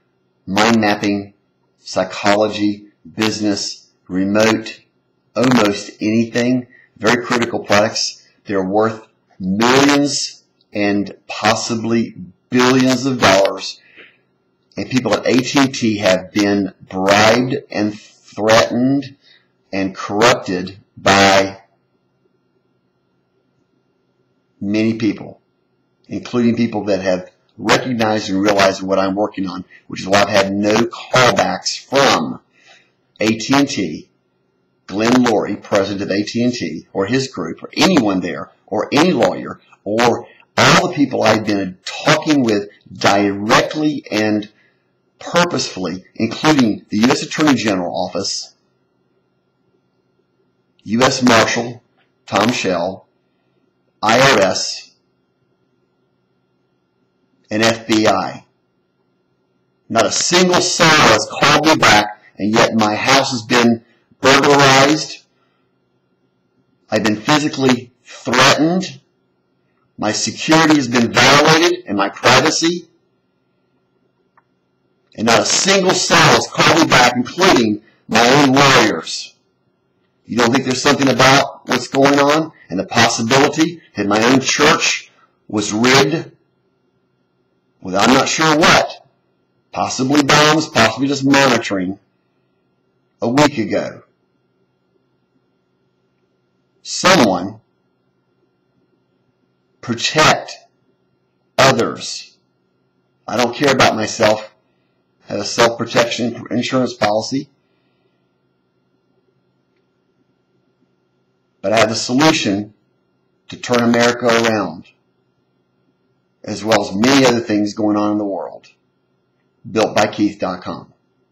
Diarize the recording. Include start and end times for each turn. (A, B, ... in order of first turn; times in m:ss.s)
0:00.5-0:04.8 A
0:05.4-0:13.8 A
0:14.8-0:19.2 A
0:19.7-0:21.6 A
0:24.6-0:25.4 A
0:26.1-0:32.4 A
0:33.2-0:34.1 A
0:34.9-0:44.5 A
0:45.2-0:48.5 A
0:50.8-0:53.0 A
0:54.0-0:54.9 A
0:57.5-0:58.4 A
0:59.9-1:05.2 A
1:06.9-1:09.0 A
1:10.0-1:12.9 A
1:15.2-1:19.3 A
1:20.3-1:26.3 A
1:27.8-1:29.0 A
1:29.7-1:32.0 A
1:33.2-1:34.0 A
1:36.8-1:37.6 A
1:39.8-1:40.6 A
1:41.6-1:42.3 A
1:43.3-1:44.5 A
1:45.3-1:47.5 A
1:51.6-1:52.7 A
1:53.5-1:54.9 A
1:56.4-1:58.7 A
1:59.6-2:00.9 A